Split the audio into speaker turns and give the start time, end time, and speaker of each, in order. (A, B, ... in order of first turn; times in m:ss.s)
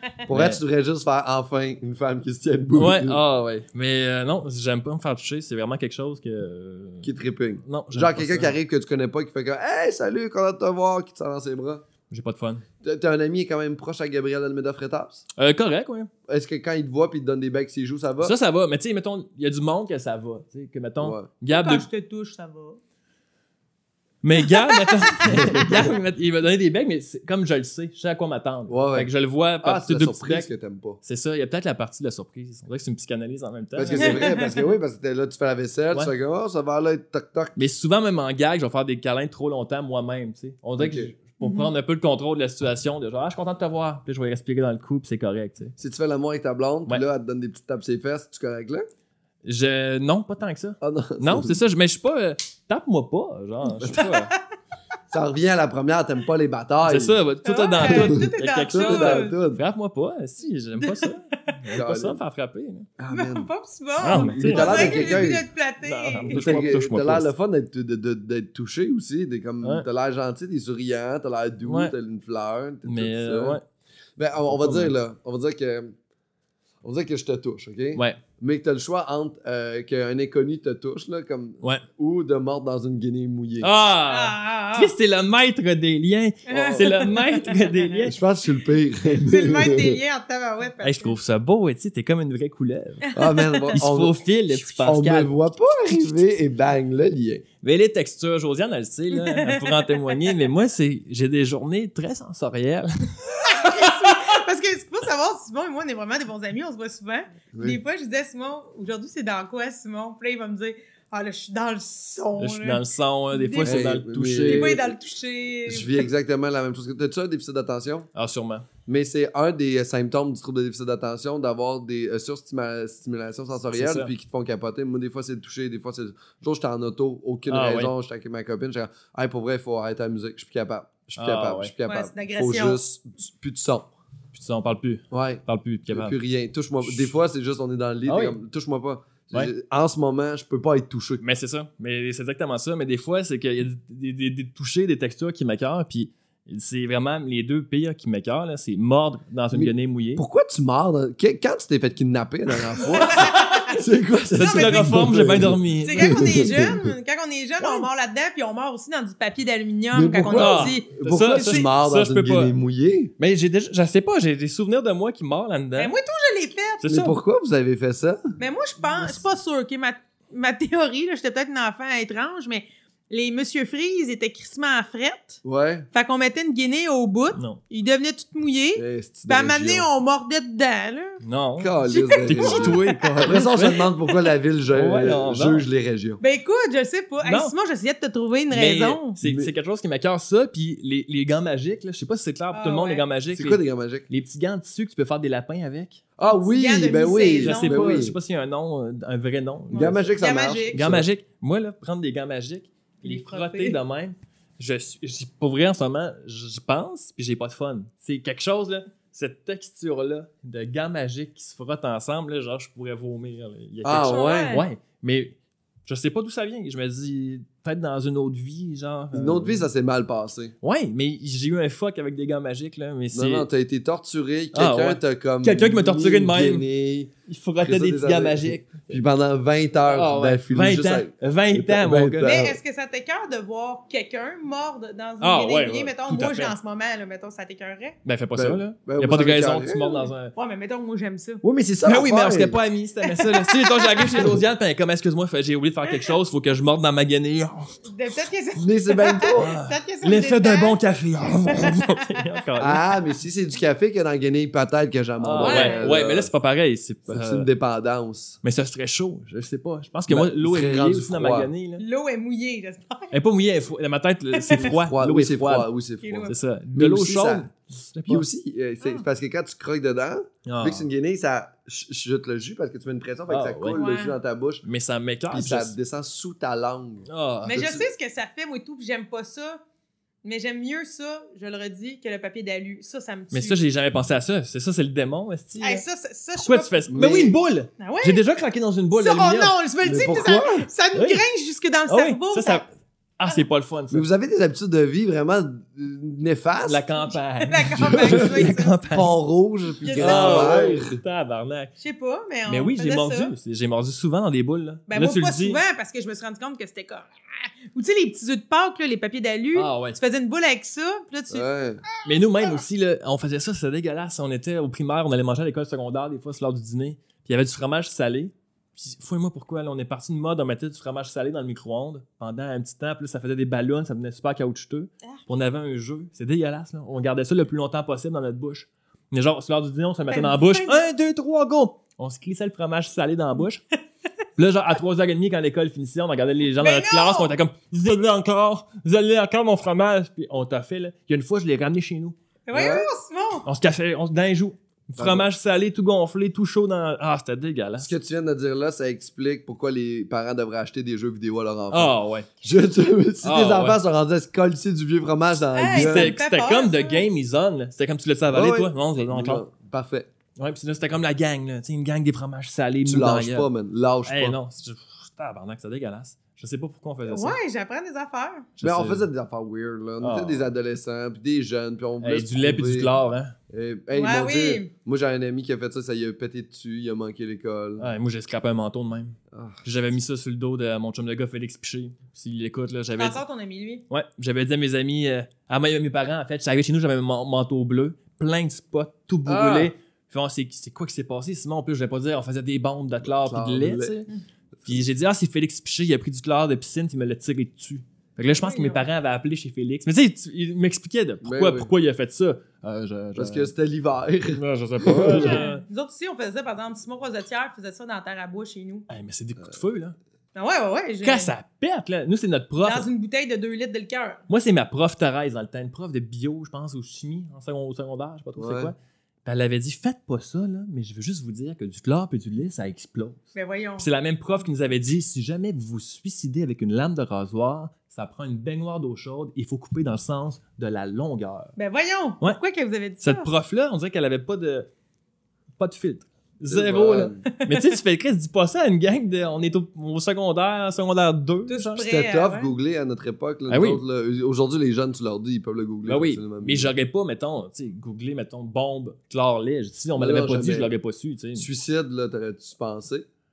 0:00.3-0:03.2 A
0:00.3-0:00.6 B
0:02.7-0:07.1 B
0:07.0-0:11.8 A
0:07.6-0:08.6 B
0:12.1-0:12.6 B
0:12.8-0:15.2 A
0:15.4-0:16.1 B
0:16.3-0:18.3 A
0:18.2-0:21.9 B
0:21.0-0:21.3 A
0:21.5-0:22.8 C
0:24.2-0:30.5 B
0:24.4-0:25.2 C
0:25.2-0:25.7 A
0:28.7-0:29.1 A
0:29.6-0:31.0 A
0:31.0-0:34.3 B
0:33.8-0:37.6 A
0:34.0-0:34.6 C
0:37.6-0:45.7 B
0:40.8-0:41.1 A
0:41.4-0:41.7 C
0:45.8-0:48.9 A
0:49.4-0:54.3 B
0:50.8-0:51.6 A
0:53.8-0:54.4 C
0:55.1-0:57.2 A
0:56.9-1:02.9 B
0:57.4-0:59.4 C
0:57.8-0:59.6 A
1:00.8-1:01.7 C
1:01.7-1:02.2 A
1:03.0-1:03.5 A
1:03.1-1:06.6 C
1:04.0-1:07.3 B
1:04.0-1:05.4 A
1:06.3-1:13.6 A
1:11.6-1:11.9 B
1:12.8-1:13.6 B
1:14.2-1:15.9 A
1:14.5-1:15.0 B
1:16.8-1:23.7 A
1:18.0-1:18.2 B
1:23.6-1:28.2 B
1:24.1-1:24.9 C
1:26.5-1:27.1 A
1:26.5-1:28.1 C
1:28.0-1:30.0 A
1:29.1-1:31.2 C
1:30.8-1:33.2 B
1:33.1-1:33.8 C
1:33.1-1:37.4 A
1:33.7-1:36.2 B
1:37.6-1:44.4 B
1:39.1-1:40.4 C
1:43.4-1:53.9 C
1:47.5-1:47.8 A
1:52.4-1:54.8 B
1:53.6-1:54.9 A
1:54.4-1:56.1 C
1:55.7-1:58.1 A
1:58.1-1:58.7 B
1:58.9-2:13.9 A
2:03.7-2:04.1 B
2:07.5-2:07.9 B
2:11.1-2:11.7 B
2:11.9-2:12.8 C
2:14.3-2:16.1 B
2:15.1-2:21.2 A
2:16.8-2:17.1 B
2:18.1-2:18.4 B
2:21.2-2:30.2 B
2:29.5-2:36.9 A
2:32.8-2:33.7 B
2:32.9-2:33.8 C
2:34.4-2:36.1 B
2:34.4-2:35.1 C
2:35.8-2:40.9 C
2:39.9-2:43.1 A
2:40.3-2:42.5 B
2:43.2-2:45.9 B
2:45.8-2:46.9 C
2:46.8-2:47.2 B
2:46.9-2:48.3 A
2:48.4-2:55.4 C
2:55.4-2:55.9 A
2:55.9-3:01.2 C
2:57.4-2:57.6 B
2:58.8-2:59.9 A
3:01.2-3:01.7 B
3:01.6-3:06.2 A
3:01.9-3:03.3 C
3:02.3-3:03.9 B
3:04.7-3:05.6 B
3:06.2-3:09.2 C
3:07.2-3:07.5 B
3:08.5-3:16.0 B
3:09.2-3:09.5 A
3:12.5-3:13.0 C
3:13.3-3:14.1 A
3:16.2-3:18.2 A
3:16.3-3:17.9 C
3:17.3-3:20.1 B
3:19.7-3:20.8 C
3:19.7-3:21.1 A
3:20.7-3:39.6 B
3:23.0-3:23.8 C
3:33.8-3:34.6 A
3:34.0-3:34.7 C
3:39.1-3:40.6 A
3:40.6-3:43.5 B
3:43.1-3:52.6 A
3:44.5-3:46.6 B
3:47.3-3:48.9 B
3:49.9-3:52.3 B
3:52.2-3:58.0 C
3:55.2-3:56.6 B
3:58.0-4:00.3 B
3:58.4-4:00.0 A
4:00.4-4:01.4 C
4:01.4-4:02.6 A
4:01.8-4:07.8 B
4:03.0-4:04.3 C
4:05.9-4:06.2 C
4:07.8-4:12.1 C
4:08.6-4:09.6 A
4:09.4-4:12.8 B
4:12.6-4:16.3 A
4:15.2-4:17.5 B
4:15.4-4:15.9 C
4:17.1-4:18.4 A
4:18.4-4:21.8 B
4:20.1-4:21.5 A
4:21.8-4:23.1 C
4:23.1-4:25.7 B
4:24.3-4:24.8 C
4:24.6-4:27.5 A
4:26.0-4:26.4 C
4:26.3-4:28.2 B
4:28.1-4:34.6 A
4:30.4-4:30.9 B
4:33.3-4:33.8 B
4:33.8-4:34.2 C
4:34.6-4:35.8 B
4:35.3-4:37.9 A
4:37.1-4:37.7 B
4:37.4-4:39.6 C
4:40.2-4:43.6 C
4:43.3-4:45.8 B
4:45.6-4:46.8 C
4:46.4-4:49.5 B
4:46.9-4:47.4 A
4:47.8-4:48.2 C
4:49.0-4:52.6 C
4:49.8-4:50.7 A
4:50.9-4:51.2 B
4:51.9-4:54.0 B
4:53.9-4:56.9 A
4:56.7-4:59.2 B
4:57.1-4:58.8 C
4:57.8-5:01.0 A
4:59.8-5:00.8 C
5:00.0-5:01.7 B
5:01.8-5:03.3 C
5:02.5-5:05.6 B
5:04.9-5:12.6 C
5:09.5-5:10.0 B
5:11.3-5:11.8 A
5:12.0-5:33.6 B
5:30.1-5:30.9 C
5:34.4-5:42.2 B
5:36.6-5:37.3 C
5:42.5-5:43.5 C
5:42.5-5:42.9 A
5:43.5-5:47.9 B
5:45.0-5:45.2 A
5:47.8-5:56.1 A
5:51.7-5:52.3 B
5:53.2-5:53.8 B
5:55.6-5:57.0 C
5:55.7-5:59.4 B
5:58.3-6:00.1 A
6:00.4-6:03.5 B
6:02.8-6:04.4 A
6:04.1-6:07.4 B
6:07.1-6:08.5 C
6:08.6-6:09.1 B
6:08.6-6:13.0 A
6:10.0-6:10.5 B
6:12.0-6:13.4 B
6:13.5-6:17.9 A
6:13.9-6:14.7 C
6:17.8-6:23.2 B
6:19.3-6:19.6 A
6:23.0-6:23.8 C
6:23.9-6:34.1 B
6:29.2-6:29.7 A
6:33.0-6:34.0 A
6:34.6-6:43.5 B
6:38.4-6:38.8 C
6:41.2-6:41.7 A
6:43.2-6:45.4 A
6:44.4-6:45.6 B
6:45.2-6:48.9 C
6:48.9-6:50.0 B
6:50.4-6:51.3 C
6:51.0-6:52.9 B
6:52.6-6:54.2 C
6:54.3-7:03.2 B
6:58.4-6:58.7 A
7:03.4-7:03.9 C
7:03.8-7:11.5 B
7:11.6-7:13.3 C
7:13.0-7:14.7 B
7:15.6-7:21.8 B
7:16.5-7:17.2 A
7:17.4-7:17.8 C
7:21.5-7:22.5 C
7:21.8-7:26.7 A
7:23.5-7:23.8 B
7:25.9-7:31.5 B
7:30.0-7:30.7 A
7:31.4-7:33.0 A